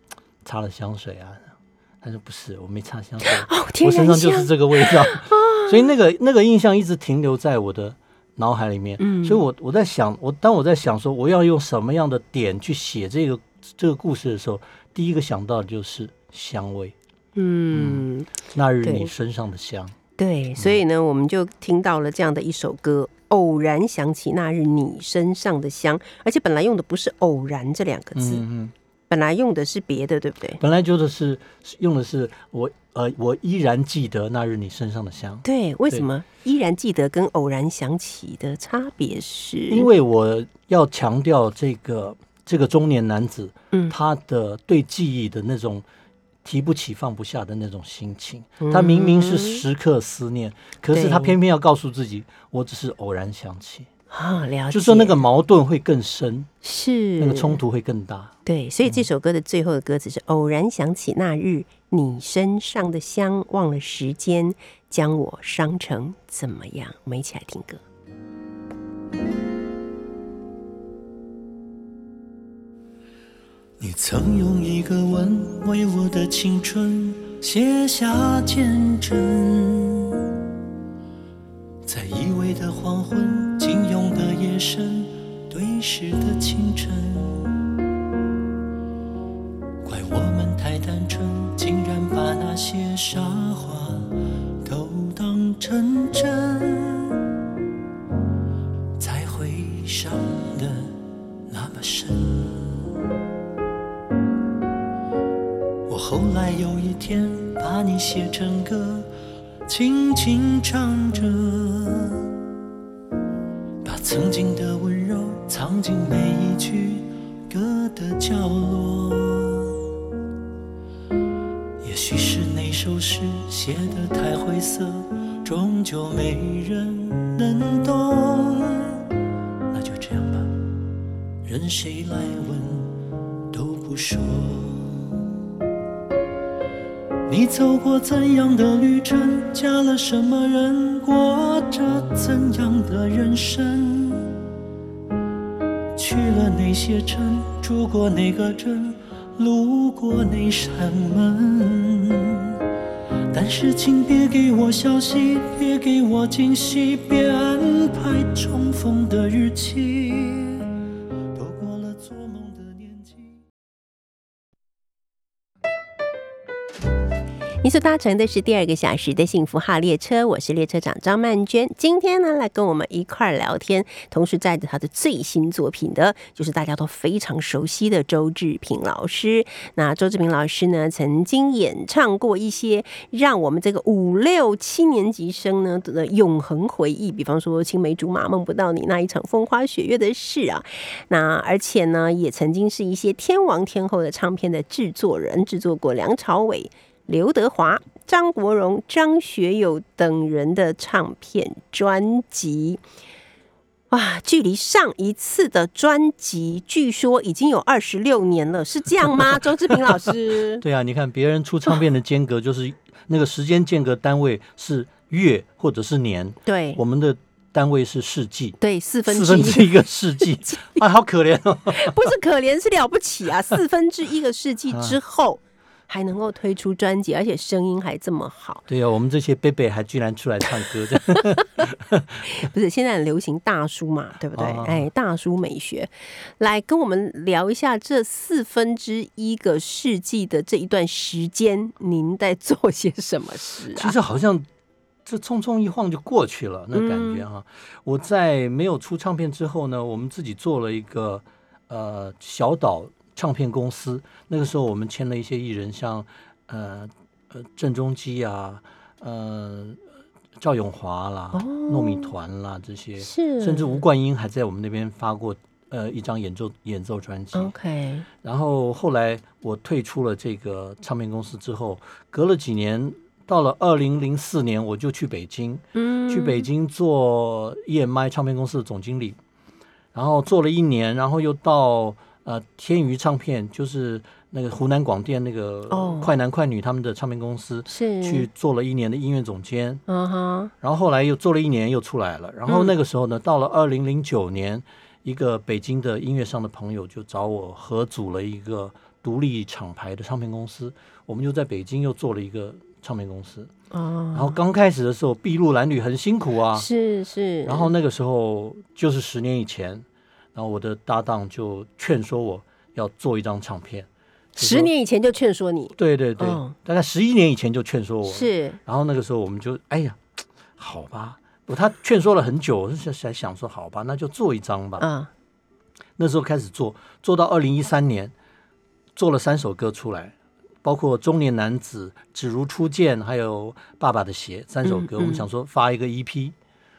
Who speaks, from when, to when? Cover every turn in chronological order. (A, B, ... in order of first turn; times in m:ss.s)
0:00.4-0:01.5 A
0:02.0-0:17.0 A
0:03.2-0:05.9 B
0:09.0-0:09.4 B
0:17.4-0:18.3 B
0:17.7-0:20.0 A
0:18.8-0:19.1 B
0:20.2-0:28.4 B
0:28.2-0:28.7 A
0:29.1-0:30.6 B
0:30.6-0:36.0 A
0:35.4-0:39.9 B
0:39.7-0:45.8 A
0:46.4-0:53.9 A
0:48.6-0:49.6 B
0:50.9-0:51.4 B
0:54.1-0:55.2 B
0:54.7-0:56.5 A
0:56.6-0:57.6 B
0:57.2-0:59.1 A
0:58.4-1:07.8 B
1:13.8-1:20.3 C
1:21.8-1:27.5 C
1:29.8-1:37.2 C
1:39.0-1:41.0 C
1:41.5-1:42.9 C
1:45.9-1:49.1 C
1:49.7-1:52.3 C
1:53.8-1:59.8 C
2:01.8-2:09.0 C
2:09.7-2:10.5 C
2:11.4-2:15.2 C
2:17.3-2:24.3 C
2:26.0-2:32.6 C
2:33.3-2:40.7 C
2:41.3-2:43.4 C
2:47.6-3:22.8 B
3:23.9-3:30.6 B
3:29.0-3:29.4 A
3:30.6-3:42.1 A
3:36.5-3:36.8 B
3:38.6-3:39.7 B
3:41.8-3:48.6 B
3:44.7-3:45.0 A
3:48.7-3:52.5 A
3:52.3-4:03.9 B
3:54.4-3:54.9 A
4:03.7-4:04.5 A
4:05.0-4:19.8 A
4:06.7-4:07.2 B
4:20.4-4:27.6 A
4:21.3-4:22.1 B
4:23.0-4:23.8 B
4:27.3-4:28.1 B
4:28.2-4:39.2 A
4:35.8-4:36.5 B
4:39.9-4:49.8 A
4:45.7-4:46.1 B
4:47.7-4:48.3 B
4:49.9-4:50.5 B
4:50.6-5:03.5 A
4:52.5-4:52.7 B
5:03.7-5:04.4 B
5:04.1-5:06.7 A
5:06.6-5:07.7 B
5:07.4-5:14.7 A
5:14.4-5:16.6 B
5:15.8-5:20.0 A
5:18.1-5:18.6 B
5:20.6-5:24.9 A
5:24.8-5:25.1 B
5:26.0-5:28.1 A
5:29.0-5:36.4 A
5:34.6-5:35.2 B